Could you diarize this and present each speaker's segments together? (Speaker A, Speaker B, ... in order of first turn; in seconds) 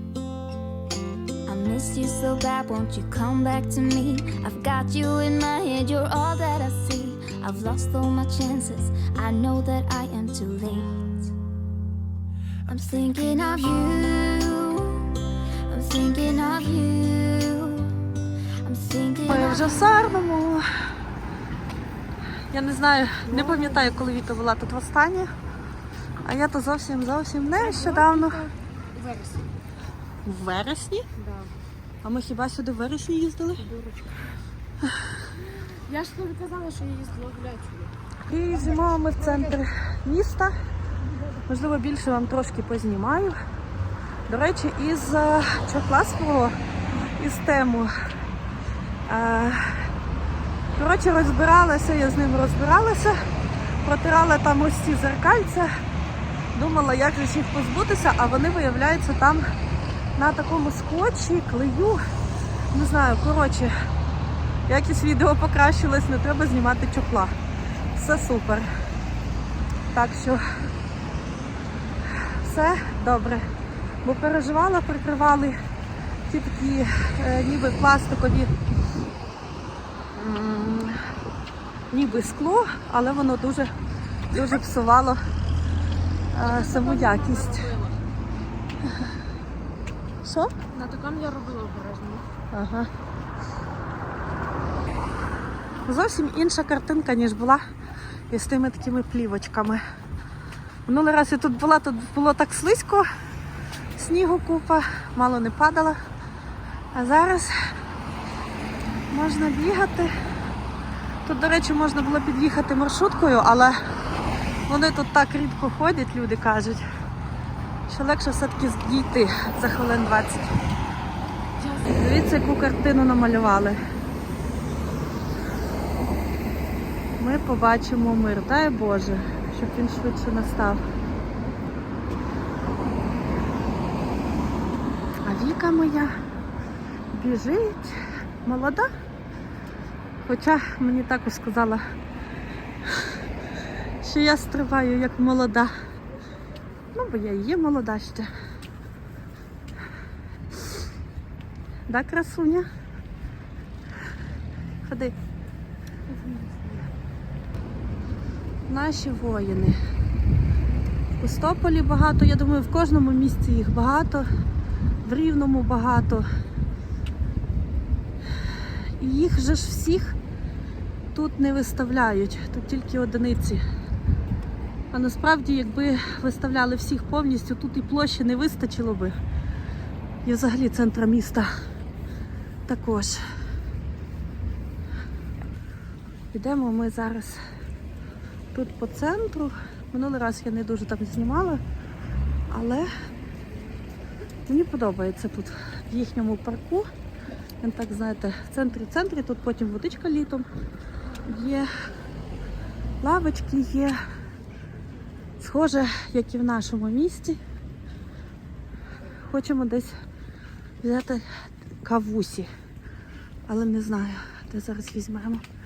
Speaker A: 1.5-11.3, 12.7-15.2, 15.7-17.9, 18.6-20.0
Speaker B: 19.3-20.6, 22.5-25.3, 26.2-28.4, 30.2-31.1, 32.0-33.6, 38.2-40.5, 41.5-43.4, 44.3-46.5, 47.2-47.9, 49.0-49.9, 50.8-53.1, 53.8-55.7, 56.5-59.5, 60.1-62.0, 62.7-63.7, 64.7-67.3, 67.9-68.7, 69.9-70.4, 72.3-73.5, 74.0-75.6, 76.3-78.5, 80.2-81.0, 81.9-83.7, 84.3-85.2, 86.3-87.7, 90.2-90.5, 92.5-92.9, 95.8-97.6, 98.3-99.8, 100.8-103.1, 104.0-106.0, 106.9-107.5, 109.1-110.1, 111.2-113.8, 114.7-116.8, 117.9-120.5, 121.8-123.8, 127.2-130.8, 135.2-136.1, 137.1-138.9, 140.2-141.8, 144.0-145.7, 146.9-148.3, 151.9-152.7, 154.8-155.2, 158.7-159.8, 161.2-164.3, 165.0-166.3, 169.0-170.2, 171.1-173.6, 174.9-179.2, 180.2-181.5, 182.7-183.2, 186.3-187.4, 188.5-191.6, 192.5-192.9, 194.5-196.9, 197.6-200.5, 201.2-201.7, 203.0-204.0, 205.4-207.4, 209.2-209.9, 210.8-211.2, 211.8-212.5, 213.5-215.4
Speaker C: 23.2-23.9, 27.6-29.5, 31.1-31.5, 33.6-34.2, 35.9-37.9, 39.2-39.5, 86.4-88.0, 90.7-92.2, 121.6-121.9, 156.1-156.9